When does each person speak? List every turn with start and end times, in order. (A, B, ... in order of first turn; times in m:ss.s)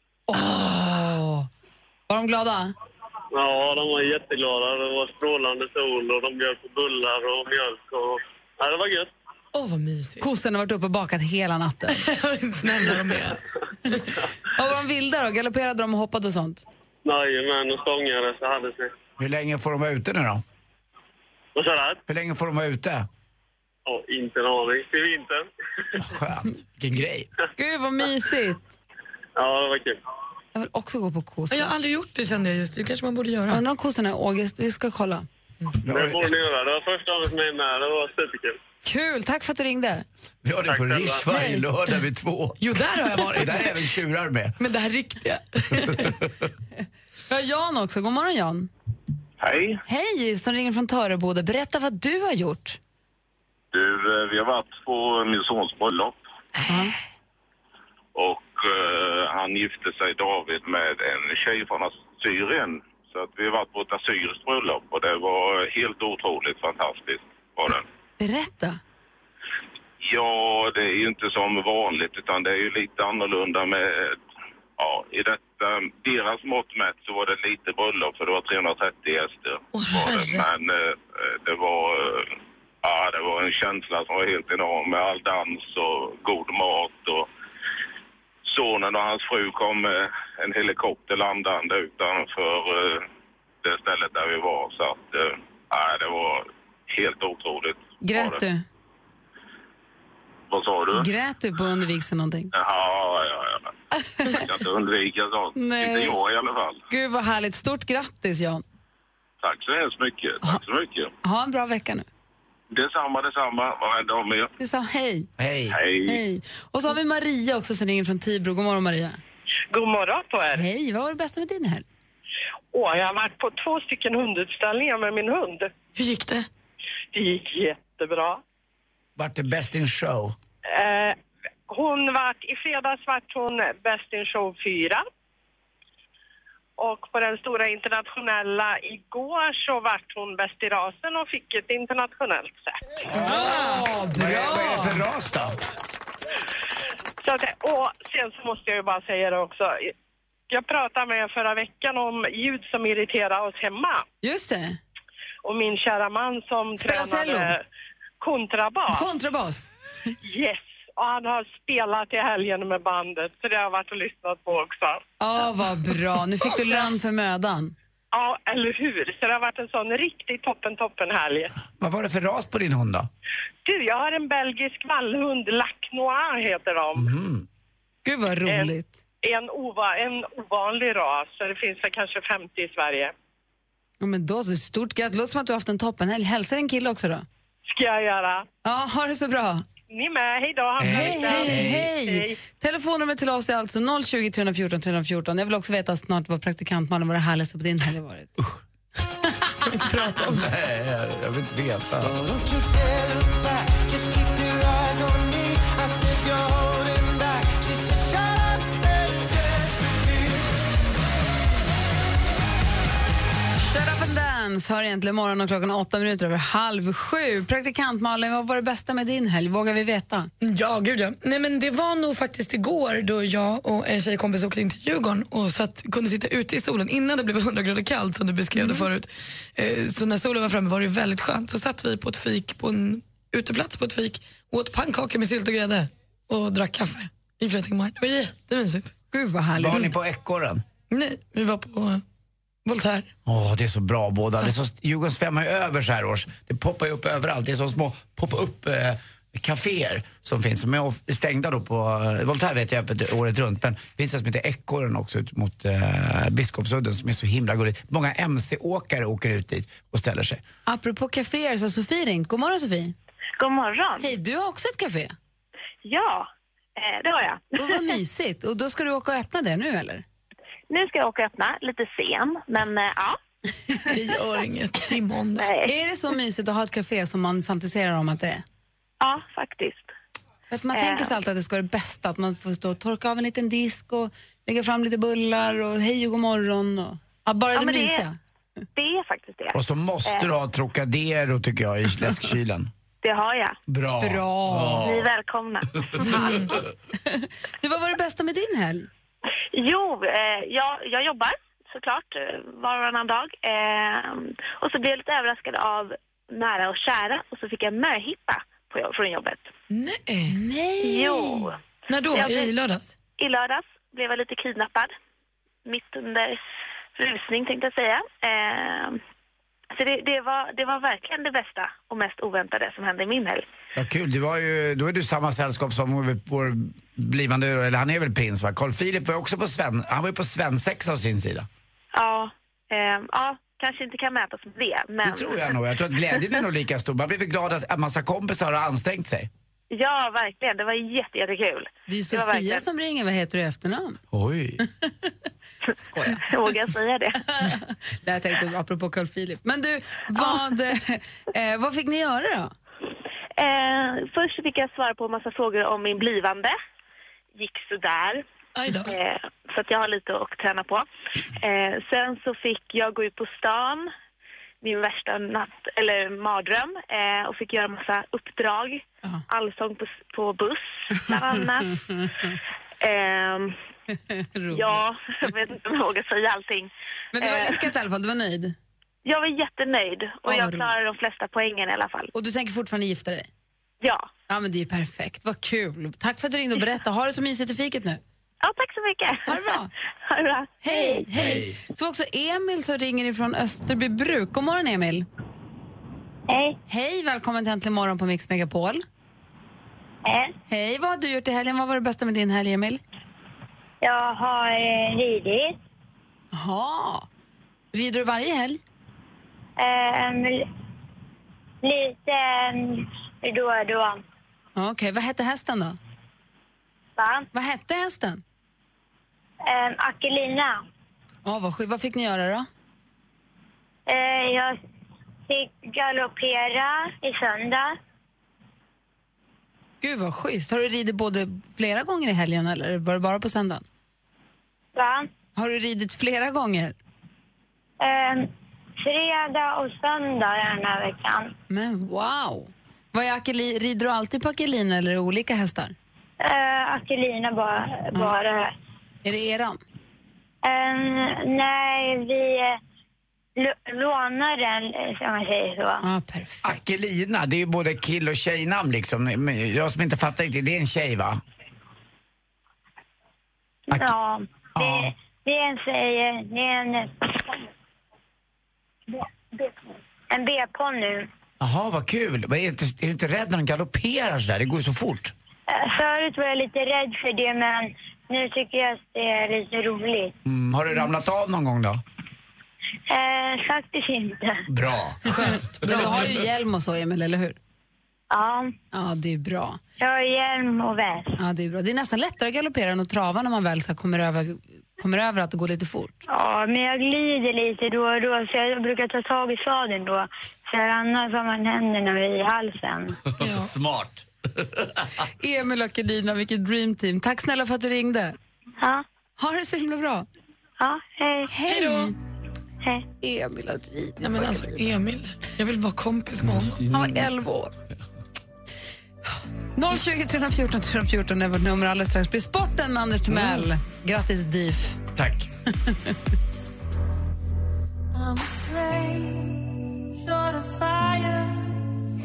0:00.3-0:01.5 A
0:02.1-0:02.7 A
0:03.3-0:09.1 B
0:09.5-0:10.2 C
0:10.2-0:12.0 A
0:11.9-0:13.4 C
0:14.5-0:16.6 A
0:17.0-0:18.9 B
0:19.2-0:20.4 D
0:21.6-0:22.0 B
0:22.1-0:23.1 D
0:23.8-0:25.5 B
0:26.0-0:27.3 D
0:27.6-0:28.7 A
0:29.4-0:30.0 B
0:30.5-0:31.7 A
0:31.5-0:33.6 C
0:33.5-0:35.2 A
0:35.8-0:36.3 D
0:35.9-0:38.6 B
0:38.8-0:40.0 A
0:40.4-0:44.6 D
0:40.7-0:41.2 B
0:41.3-0:41.6 A
0:42.6-0:43.8 C
0:44.6-0:46.1 C
0:45.8-0:46.3 D
0:47.3-0:48.7 A
0:49.4-0:49.8 E
0:49.8-0:52.8 A
0:53.7-0:56.2 E
0:56.6-0:56.9 A
0:58.1-1:07.8 E
1:08.2-1:08.8 A
1:10.0-1:14.2 E
1:14.8-1:27.3 E
1:19.7-1:20.5 C
1:28.4-1:33.1 E
1:33.6-1:38.4 E
1:38.0-1:38.6 A
1:40.5-1:41.1 E
1:40.9-1:42.5 A
1:42.5-1:43.7 E
1:43.9-1:44.4 A
1:44.3-1:46.8 E
1:45.6-1:46.2 A
1:46.9-1:48.6 A
1:49.4-1:51.1 E
1:51.2-1:52.0 A
1:52.7-1:54.5 E
1:54.6-1:55.3 A
1:55.4-1:55.8 D
1:55.7-1:56.2 E
1:56.0-1:59.2 A
1:59.7-2:00.6 F
2:00.5-2:01.8 A
2:02.7-2:05.7 F
2:06.0-2:06.5 C
2:07.1-2:08.4 F
2:09.2-2:10.3 D
2:10.6-2:11.2 F
2:11.7-2:15.0 F
2:16.8-2:22.8 F
2:23.2-2:25.0 A
2:23.2-2:23.5 D
2:24.1-2:25.6 D
2:27.2-2:29.9 F
2:30.5-2:34.0 F
2:34.2-2:34.8 A
2:35.4-2:37.6 F
2:36.8-2:37.5 A
2:38.2-2:39.1 F
2:38.9-2:39.7 A
2:40.2-2:45.0 F
2:45.2-2:47.7 A
2:48.1-2:51.5 F
2:51.8-2:53.1 D
2:53.6-2:57.1 F
2:57.0-2:57.4 D
2:58.0-2:59.0 A
2:58.4-3:03.1 F
3:04.0-3:07.2 A
3:07.7-3:08.4 F
3:08.6-3:09.6 A
3:09.9-3:12.4 F
3:10.8-3:11.9 D
3:10.8-3:18.4 A
3:19.6-3:20.5 C
3:20.2-3:22.2 D
3:22.0-3:30.5 G
3:33.6-3:40.3 A
3:40.4-3:58.9 C
3:48.6-3:48.9 A
3:59.1-3:59.9 A
3:59.6-4:00.6 D
4:00.9-4:02.0 C
4:02.6-4:03.1 C
4:03.2-4:20.4 D
4:20.7-4:22.9 A
4:23.4-4:24.1 H
4:24.0-4:25.1 A
4:25.8-4:27.9 H
4:27.6-4:30.0 A
4:30.7-4:33.2 H
4:33.9-4:35.5 C
4:35.4-4:35.7 H
4:35.6-4:38.4 A
4:39.0-4:39.9 H
4:40.5-4:48.2 A
4:40.7-4:41.1 H
4:47.5-4:48.0 H
4:48.7-4:50.3 H
4:49.5-4:52.7 D
4:53.0-4:53.6 H
4:53.7-4:55.1 D
4:54.0-4:54.9 A
4:54.7-4:56.4 H
4:56.0-4:58.9 A
4:56.0-4:56.5 C
4:59.5-5:09.5 H
5:09.7-5:10.4 C
5:10.3-5:11.5 A
5:10.8-5:11.6 H
5:11.9-5:12.9 C
5:12.1-5:12.5 H
5:13.2-5:14.9 H
5:15.6-5:16.4 H
5:16.9-5:19.0 H
5:19.7-5:23.4 H
5:23.7-5:31.5 D
5:31.9-5:35.6 H
5:35.0-5:39.3 D
5:39.7-5:42.6 H
5:41.9-5:44.0 A
5:44.1-5:44.6 D
5:45.8-5:46.2 A
5:46.0-5:47.3 H
5:47.2-5:52.5 A
5:53.4-5:56.6 H
5:57.4-6:03.9 H
5:58.5-5:58.9 C
6:04.6-6:12.1 H
6:11.9-6:12.2 A
6:12.8-6:13.6 H
6:14.1-6:14.8 A
6:14.5-6:17.6 H
6:17.1-6:18.5 A
6:19.0-6:22.1 H
6:20.2-6:20.7 A
6:22.1-6:23.3 A
6:23.8-6:24.1 H
6:24.3-6:28.0 A
6:28.4-6:31.0 H
6:29.3-6:29.7 A
6:30.6-6:35.0 A
6:31.1-6:31.6 D
6:36.3-6:36.6 I
6:36.7-6:38.8 A
6:40.0-6:40.3 I
6:40.5-6:42.8 A
6:43.8-6:45.5 I
6:46.3-6:47.1 A
6:47.7-6:48.6 A
6:49.6-6:50.4 I
6:51.6-6:54.0 I
6:54.6-6:55.8 A
6:57.0-6:57.2 I
6:57.3-6:58.2 A
6:59.4-7:00.6 I
7:01.2-7:02.5 A
7:03.9-7:04.6 I
7:05.3-7:07.7 I
7:09.8-7:13.6 A
7:14.7-7:15.1 I
7:15.4-7:16.8 A
7:17.8-7:18.3 I
7:18.8-7:21.3 I
7:21.5-7:25.7 A
7:26.2-7:28.5 I
7:29.0-7:29.6 A
7:30.4-7:32.6 I
7:33.4-7:35.8 I
7:35.8-7:36.6 A
7:36.4-7:41.2 D
7:43.7-7:47.4 I
7:44.6-7:44.9 D
7:48.9-7:49.5 I
7:50.1-7:51.1 I
7:51.4-7:55.1 D
7:55.5-8:00.1 I
8:00.2-8:01.8 D
8:02.9-8:04.4 I
8:04.5-8:05.9 D
8:05.1-8:06.2 C
8:05.1-8:07.4 A
8:08.1-8:08.5 I
8:08.7-8:09.6 A
8:09.8-8:11.2 I
8:11.2-8:16.0 A
8:16.1-8:23.0 I
8:23.2-8:23.5 C
8:23.2-8:24.8 D
8:25.2-8:28.2 A
8:28.6-8:28.8 I
8:29.2-8:30.0 A
8:30.6-8:31.3 I
8:31.3-8:31.9 A
8:31.5-8:31.9 C
8:33.0-8:34.6 A
8:34.0-8:36.6 C
8:36.4-8:37.0 D
8:36.7-8:37.5 A
8:39.6-8:44.8 A
8:45.0-8:45.3 D
8:45.7-8:45.9 A
8:47.9-8:51.6 G